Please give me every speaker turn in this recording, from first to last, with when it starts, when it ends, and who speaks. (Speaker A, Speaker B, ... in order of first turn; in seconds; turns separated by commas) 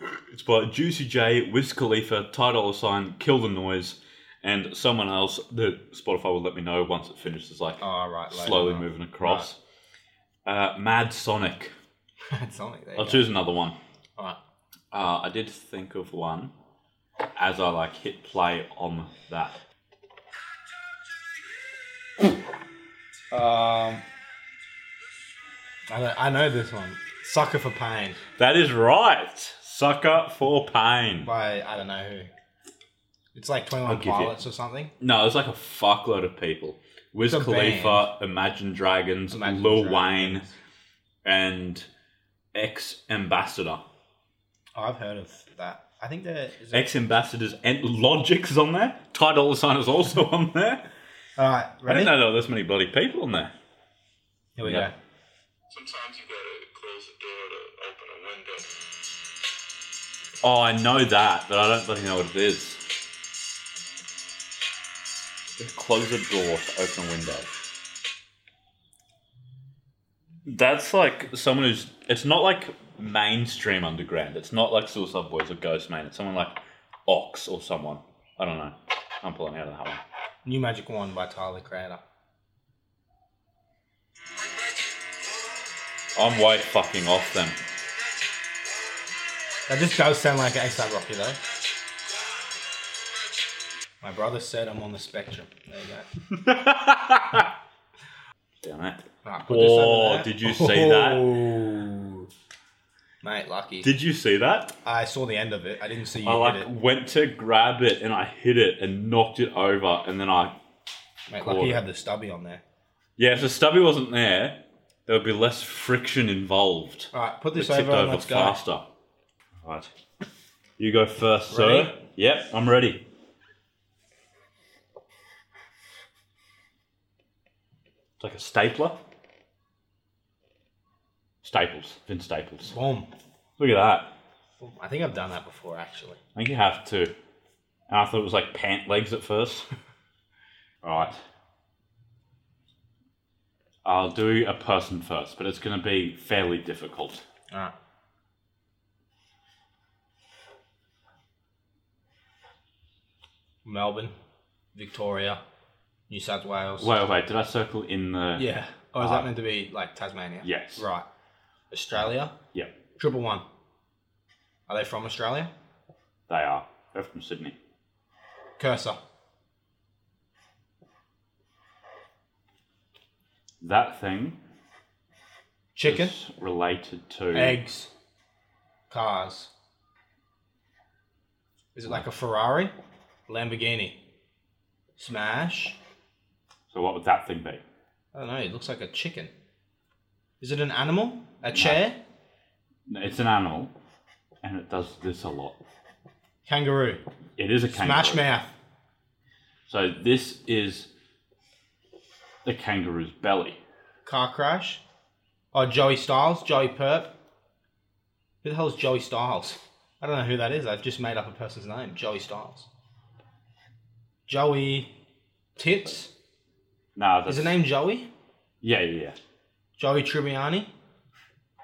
Speaker A: 0.3-9.6, Speaker B: 7.8-9.5, Speaker A: 10.5-11.7, Speaker B: 12.3-13.3, Speaker A: 13.0-13.8, Speaker A: 14.9-16.5, Speaker A: 17.4-19.6, Speaker B: 23.3-24.0, Speaker B: 25.9-28.2, Speaker A: 28.4-31.3, Speaker B: 31.2-32.3, Speaker B: 33.3-34.9, Speaker A: 33.9-34.4, Speaker A: 35.0-40.5, Speaker B: 37.3-38.1, Speaker B: 39.3-40.5, Speaker A: 41.2-41.9, Speaker A: 42.5-43.8, Speaker B: 44.8-46.9, Speaker A: 46.7-50.9, Speaker B: 51.4-52.1, Speaker A: 51.9-53.5, Speaker B: 54.6-55.0, Speaker A: 54.6-54.9, Speaker C: 55.7-58.7, Speaker A: 60.4-62.8, Speaker A: 65.6-67.5, Speaker A: 70.5-80.0, Speaker B: 80.5-82.0, Speaker A: 86.2-87.6, Speaker B: 89.7-91.4, Speaker B: 94.0-96.1, Speaker A: 96.3-97.5, Speaker A: 98.6-101.4, Speaker B: 99.2-102.3, Speaker B: 103.2-103.9, Speaker A: 103.8-104.7, Speaker B: 104.8-106.7, Speaker A: 106.2-110.6, Speaker B: 111.3-112.6, Speaker A: 111.4-111.8, Speaker A: 113.2-118.9, Speaker B: 117.1-118.6, Speaker A: 119.6-119.9, Speaker A: 120.8-123.0, Speaker B: 121.5-122.0, Speaker A: 128.2-129.0, Speaker A: 131.4-132.8, Speaker B: 132.7-133.1, Speaker A: 133.6-134.1, Speaker B: 134.6-136.2, Speaker A: 136.3-137.2, Speaker A: 137.9-139.7, Speaker A: 140.8-141.2, Speaker A: 143.8-147.2, Speaker B: 153.7-154.1, Speaker B: 154.7-155.4, Speaker B: 156.1-156.9, Speaker A: 156.8-159.3, Speaker B: 158.4-161.1, Speaker A: 160.4-160.9, Speaker B: 161.7-162.3, Speaker B: 163.0-163.4, Speaker B: 164.7-165.5, Speaker A: 166.3-167.6, Speaker B: 168.6-169.0, Speaker A: 173.6-174.4, Speaker B: 175.8-176.2, Speaker A: 175.8-177.6, Speaker B: 177.3-177.9, Speaker B: 178.9-179.5, Speaker B: 181.8-182.7, Speaker B: 183.3-184.0, Speaker B: 185.0-185.8, Speaker A: 186.7-187.6, Speaker B: 188.1-189.3, Speaker B: 190.4-192.0, Speaker A: 191.5-191.9, Speaker A: 192.9-193.7, Speaker A: 194.4-195.6, Speaker B: 196.5-197.0, Speaker A: 197.4-198.3, Speaker B: 197.7-198.5, Speaker A: 199.7-200.9, Speaker A: 202.4-203.6, Speaker B: 204.1-204.8, Speaker B: 205.5-207.1, Speaker B: 208.4-212.7, Speaker B: 214.3-214.9, Speaker B: 215.6-216.1, Speaker A: 216.9-217.6, Speaker B: 217.3-218.1, Speaker A: 218.6-219.2, Speaker B: 219.8-220.7